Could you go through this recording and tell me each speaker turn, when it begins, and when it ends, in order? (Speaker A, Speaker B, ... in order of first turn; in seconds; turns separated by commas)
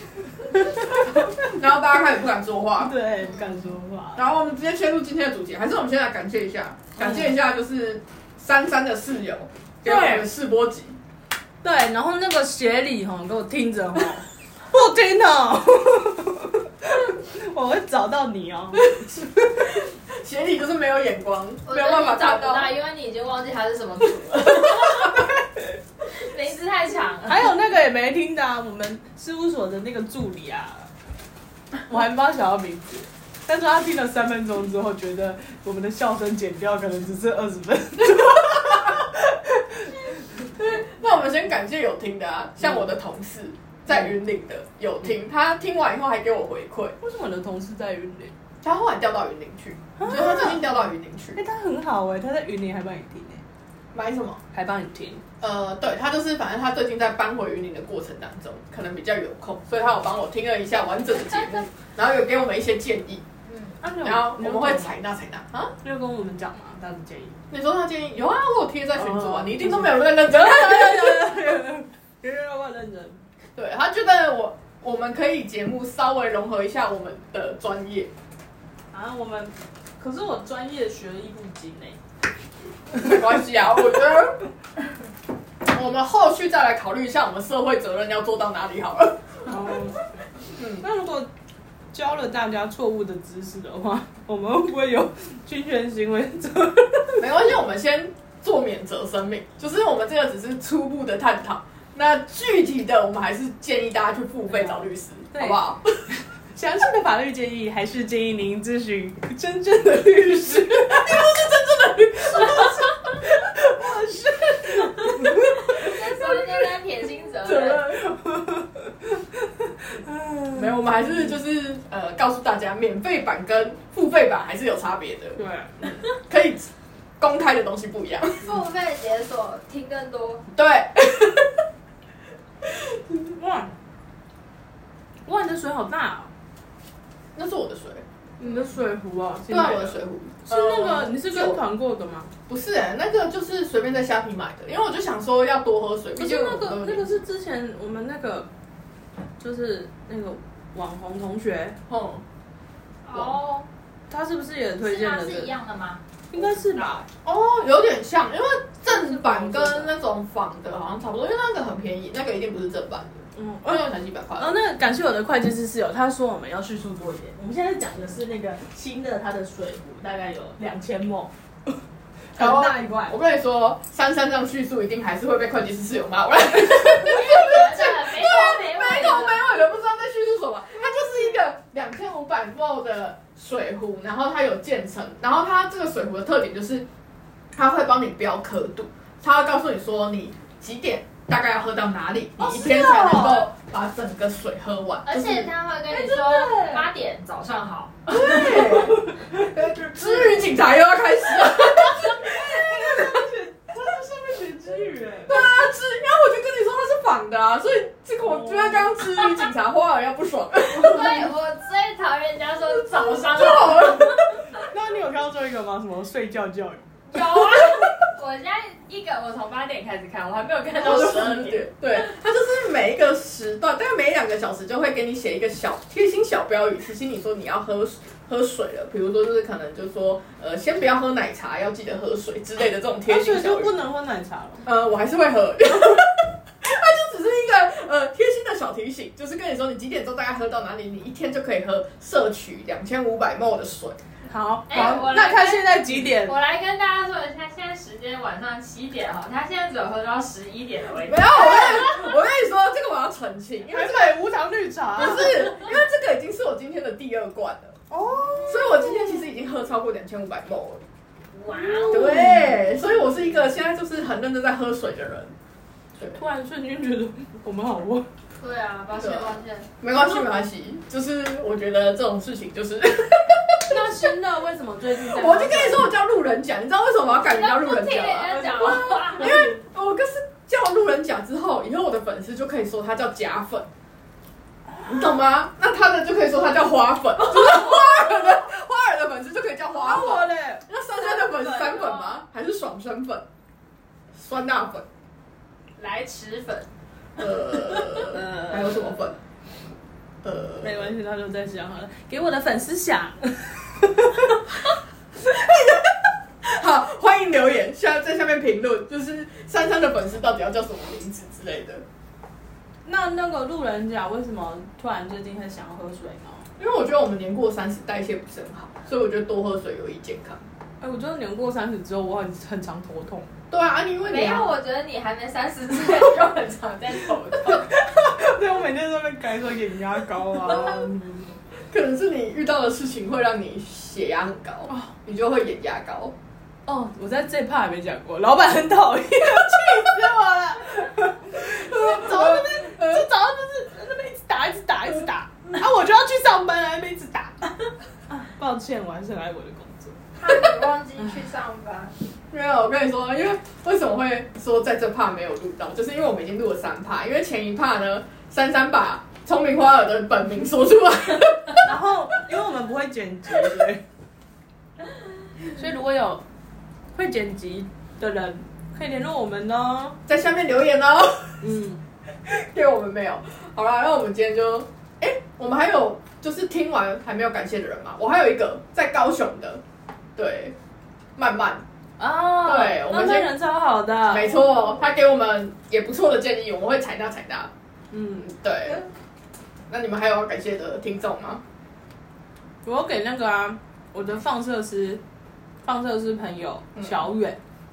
Speaker A: 0.3-1.4, Speaker B: 1.0-2.9, Speaker A: 2.8-4.2, Speaker C: 3.2-3.6, Speaker B: 4.2-11.0, Speaker A: 7.0-7.3, Speaker A: 9.8-10.3, Speaker A: 11.6-19.2, Speaker B: 19.4-22.7, Speaker C: 21.7-25.3, Speaker C: 26.1-27.5, Speaker A: 27.2-30.9, Speaker A: 31.9-39.9, Speaker B: 40.5-46.9, Speaker A: 47.0-48.3, Speaker B: 48.6-51.4, Speaker A: 50.0-50.6, Speaker A: 51.4-53.4, Speaker B: 53.9-54.4, Speaker A: 54.5-55.2, Speaker B: 55.4-63.2, Speaker C: 63.5-63.8, Speaker A: 63.8-65.0, Speaker B: 64.0-65.7, Speaker A: 65.8-67.4, Speaker B: 67.5-71.4, Speaker A: 69.0-73.2, Speaker B: 73.5-78.1, Speaker A: 78.9-82.0, Speaker B: 82.9-84.4, Speaker B: 85.6-89.5, Speaker A: 89.5-90.0, Speaker B: 90.6-90.8, Speaker A: 90.6-91.3, Speaker A: 91.9-97.3, Speaker B: 97.2-106.1, Speaker A: 104.5-111.4, Speaker B: 110.5-112.8, Speaker A: 112.2-116.3, Speaker B: 115.2-115.8, Speaker C: 115.6-117.9, Speaker B: 117.4-118.0, Speaker A: 117.9-121.3, Speaker B: 120.5-128.6, Speaker A: 125.4-125.8, Speaker C: 128.4-130.4, Speaker B: 130.5-131.6, Speaker A: 133.2-133.7, Speaker A: 135.2-136.3, Speaker B: 137.3-138.0, Speaker A: 138.4-142.3, Speaker B: 139.5-141.6, Speaker B: 142.5-147.2, Speaker A: 146.2-148.5, Speaker A: 149.4-151.8, Speaker B: 151.9-152.2, Speaker C: 153.0-153.7, Speaker A: 154.1-155.5, Speaker C: 154.8-157.1, Speaker A: 156.3-157.0, Speaker B: 157.2-164.5, Speaker A: 158.9-159.9, Speaker A: 163.3-171.3, Speaker A: 172.3-173.2, Speaker B: 172.3-186.8, Speaker C: 176.8-179.4, Speaker B: 187.5-195.5, Speaker A: 192.4-193.5, Speaker C: 195.1-199.0, Speaker A: 195.9-196.9, Speaker B: 198.1-203.3, Speaker A: 201.9-205.4, Speaker B: 205.2-211.3, Speaker A: 208.2-208.9, Speaker C: 210.7-214.4, Speaker B: 212.8-214.4, Speaker A: 214.5-216.8, Speaker C: 217.1-222.0, Speaker B: 220.8-233.7, Speaker A: 233.1-234.7, Speaker B: 234.6-244.0, Speaker A: 244.3-246.3, Speaker C: 244.7-252.2, Speaker B: 251.0-254.2, Speaker A: 253.7-255.6, Speaker B: 254.9-257.8, Speaker A: 257.9-258.7, Speaker C: 258.1-259.0, Speaker B: 258.4-260.8, Speaker C: 261.3-262.4, Speaker A: 261.5-262.8, Speaker B: 261.9-265.3, Speaker A: 266.1-268.1, Speaker C: 268.4-269.7, Speaker B: 268.9-273.8, Speaker A: 273.7-275.9, Speaker B: 275.0-283.7, Speaker C: 277.2-279.5, Speaker A: 278.3-279.6, Speaker B: 284.9-293.2, Speaker A: 289.7-292.1, Speaker B: 294.1-294.9, Speaker C: 295.8-296.7, Speaker B: 297.2-299.2, Speaker A: 298.1-298.8, Speaker B: 300.2-300.9, Speaker A: 300.6-304.4, Speaker B: 305.1-311.8, Speaker A: 312.9-316.4, Speaker B: 316.6-320.4, Speaker A: 320.8-323.3, Speaker B: 323.5-324.5, Speaker C: 324.0-327.7, Speaker A: 327.4-331.3, Speaker B: 330.4-330.8, Speaker B: 331.7-336.1, Speaker A: 336.6-347.4, Speaker B: 341.3-343.0, Speaker A: 348.1-350.0, Speaker C: 350.2-351.9, Speaker B: 352.3-361.7, Speaker A: 361.6-363.8, Speaker A: 365.4-366.2, Speaker A: 366.9-370.0, Speaker B: 370.1-371.4, Speaker A: 371.4-371.8, Speaker B: 372.2-379.6, Speaker B: 380.1-380.5, Speaker B: 381.1-381.6, Speaker A: 382.0-384.5, Speaker B: 382.4-383.3, Speaker B: 384.1-387.5, Speaker A: 387.9-388.8, Speaker B: 388.2-388.8, Speaker B: 389.7-391.4, Speaker A: 392.6-395.0, Speaker A: 395.6-397.4, Speaker B: 396.8-397.0